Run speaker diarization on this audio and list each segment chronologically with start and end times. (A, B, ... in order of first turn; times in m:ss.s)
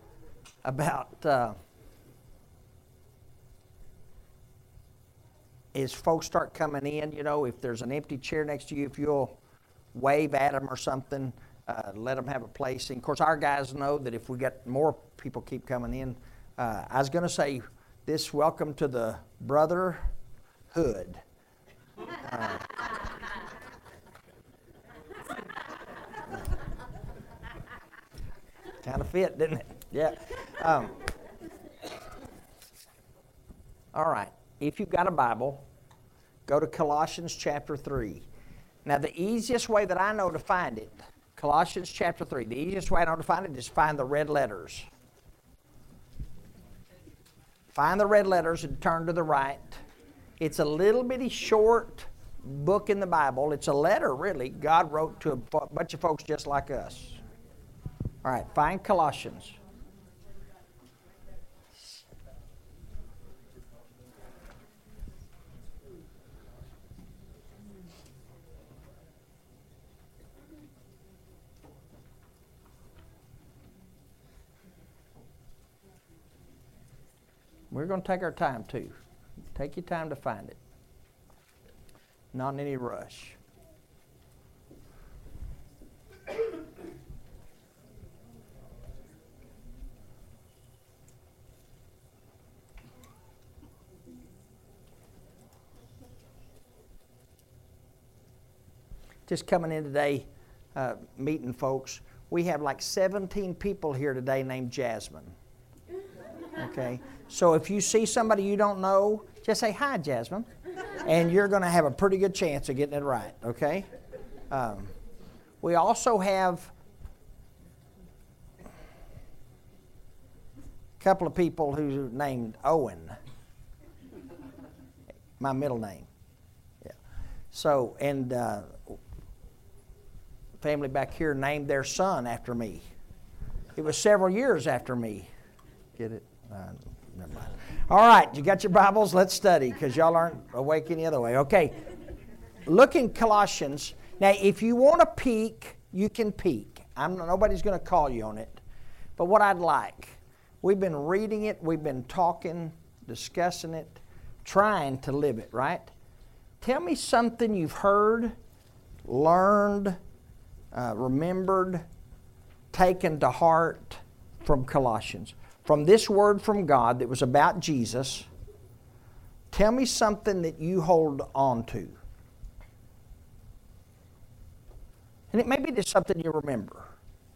0:00.6-0:01.6 A
0:05.7-0:09.4 A
0:09.9-0:20.0 A
0:20.7-0:21.2 A
0:22.2-0:22.7 A
0:28.8-0:31.0 A
0:33.9-0:35.6 A
0:36.5-0:38.2 A
0:38.8-0:44.9 A
0:47.7-0:49.8 A
0:50.4-0:57.2 A
0:58.2-0:59.5 A
1:17.7-1:19.0 A
1:19.5-1:20.6 A
1:22.3-1:23.4 A
1:39.3-1:45.3 A
1:46.6-1:50.5 A
1:51.0-1:53.9 A
1:54.5-1:54.9 A
1:55.6-1:56.7 A
2:01.0-2:03.2 A
2:05.4-2:06.1 A
2:07.5-2:09.0 A
2:10.6-2:12.8 A
2:13.8-2:15.3 A
2:16.0-2:21.8 A
2:22.6-2:28.6 A
2:29.2-2:35.9 A
2:36.6-2:38.3 A
2:39.0-2:40.0 A
2:40.7-2:41.8 A
2:42.7-2:48.3 A
2:49.5-2:52.0 A
2:55.3-2:56.9 A